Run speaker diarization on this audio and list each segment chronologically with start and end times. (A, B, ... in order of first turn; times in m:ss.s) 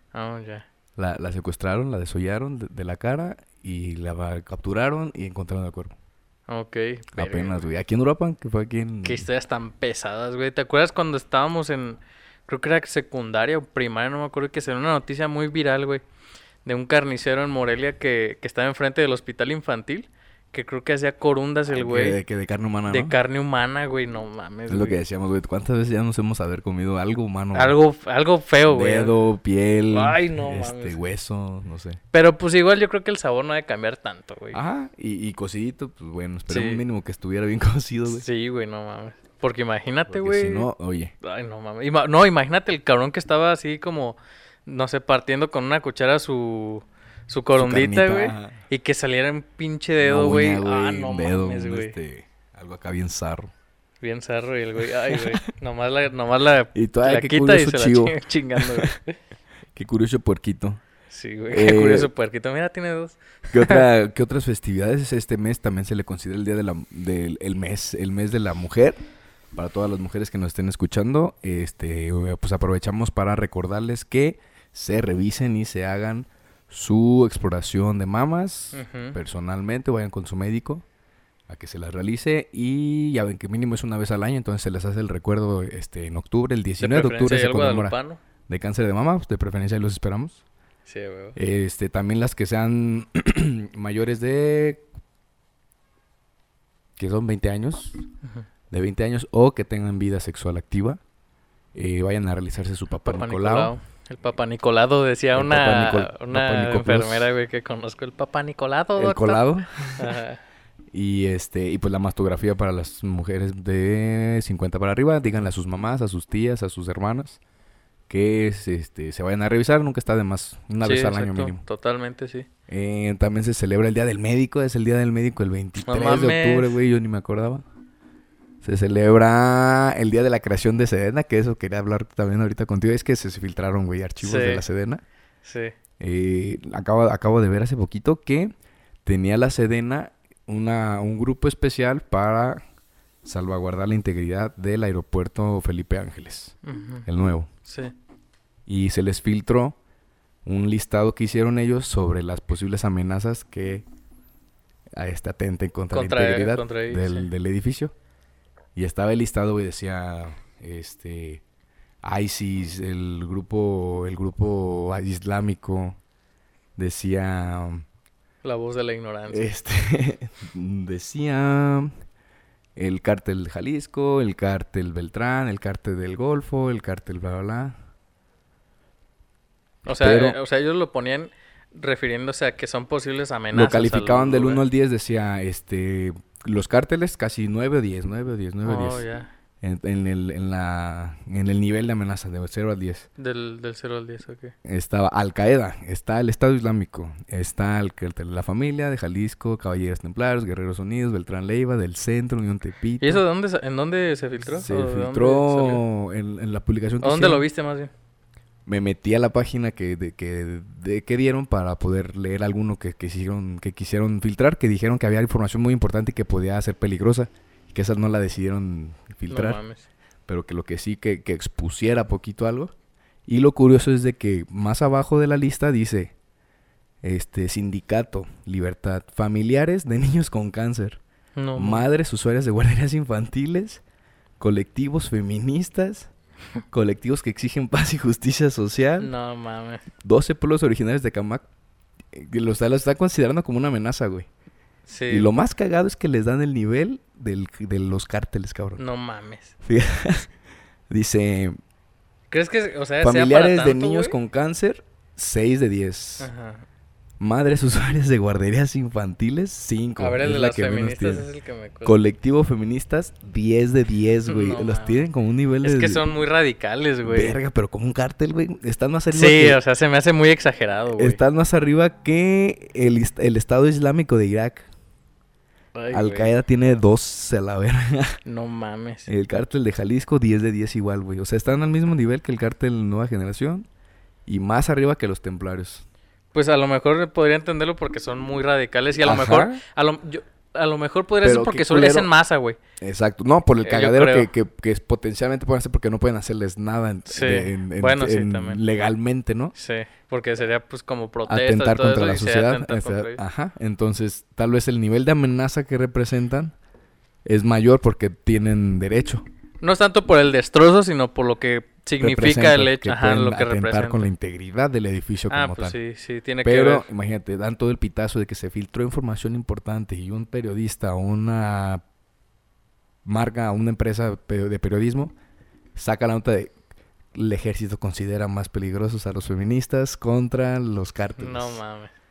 0:00.1-0:00.7 A
0:01.0-0:06.0 B
0:06.5-0:07.7 A
0:07.2-0:09.2 B
0:09.0-0:16.0 A
0:16.6-0:22.2 A
0:21.7-0:23.2 B
0:22.9-0:25.0 A
0:24.7-0:27.8 B
0:27.5-0:29.1 A
0:28.7-0:32.0 B
0:29.9-0:31.0 A
0:32.1-0:34.6 A
0:34.5-0:38.2 B
0:36.5-0:36.8 A
0:38.1-0:40.7 A
0:40.1-0:41.1 B
0:41.2-0:52.0 A
0:47.6-0:48.6 B
0:50.0-0:53.5 B
0:54.0-0:59.2 A
0:55.1-0:55.4 B
0:56.7-0:59.0 B
0:59.8-1:00.8 B
1:01.1-1:03.8 A
1:01.5-1:02.1 B
1:03.5-1:09.0 B
1:09.5-1:20.8 B
1:18.7-1:19.2 A
1:21.5-1:28.0 B
1:26.8-1:28.2 A
1:28.5-1:30.4 B
1:30.9-1:31.4 A
1:31.4-1:34.8 B
1:37.0-1:38.0 B
1:38.7-1:41.0 B
1:41.8-1:43.7 B
1:43.0-1:50.4 A
1:45.4-1:47.3 B
1:49.0-1:50.2 B
1:50.9-1:57.4 B
1:58.1-2:01.6 B
2:00.8-2:02.5 A
2:02.7-2:07.6 B
2:05.8-2:06.8 A
2:08.6-2:15.0 B
2:14.2-2:14.6 A
2:15.4-2:15.7 A
2:16.0-2:18.5 B
2:19.0-2:22.6 B
2:23.2-2:27.5 B
2:26.6-2:27.1 A
2:27.6-2:27.9 A
2:28.7-2:29.8 B
2:30.4-2:33.9 B
2:34.9-2:37.9 B
2:35.9-2:37.3 A
2:38.8-2:41.4 B
2:42.0-2:46.0 B
2:46.8-2:47.8 B
2:48.4-2:49.5 A
2:49.3-2:51.9 B
2:52.8-2:57.8 B
2:59.9-3:04.6 A
2:59.9-3:00.4 B
3:03.5-3:09.0 B
3:08.6-3:09.3 A
3:09.6-3:13.1 B
3:13.2-3:14.5 A
3:14.6-3:23.2 B
3:23.0-3:25.8 A
3:24.5-3:27.4 B
3:27.0-3:27.9 A
3:28.7-3:39.6 B
3:39.3-3:39.9 A
3:40.3-3:42.7 B
3:43.3-3:46.1 B
3:47.0-3:51.0 B
3:51.4-3:51.9 A
3:51.6-3:53.8 B
3:54.4-3:56.1 B
3:56.7-3:59.1 B
3:59.0-3:59.8 A
4:00.0-4:01.5 B
4:02.1-4:04.3 B
4:04.9-4:05.3 A
4:05.1-4:08.8 B
4:08.8-4:09.5 A
4:09.6-4:10.3 B
4:10.9-4:11.6 B
4:12.3-4:14.2 A
4:13.0-4:16.3 B
4:16.2-4:16.7 A
4:17.2-4:21.3 B
4:20.0-4:22.0 A
4:21.8-4:26.0 B
4:24.3-4:25.0 A
4:25.6-4:27.4 A
4:27.0-4:29.6 B
4:29.1-4:31.2 A
4:31.0-4:34.7 B
4:35.8-4:36.3 A
4:35.9-4:38.2 B
4:38.3-4:39.1 A
4:39.1-4:43.7 B
4:44.3-4:45.8 B
4:46.3-4:52.6 A
4:49.0-4:49.6 B
4:51.2-4:52.1 B
4:52.8-4:59.5 B
4:53.6-4:54.3 A
4:57.1-4:58.6 A
4:59.6-5:03.2 A
5:01.3-5:06.5 B
5:07.3-5:09.2 B
5:09.6-5:14.1 A
5:12.0-5:15.8 B
5:15.3-5:16.9 A
5:16.4-5:21.8 B
5:23.0-5:25.1 B
5:25.8-5:26.5 B
5:27.1-5:31.6 B
5:31.2-5:31.9 A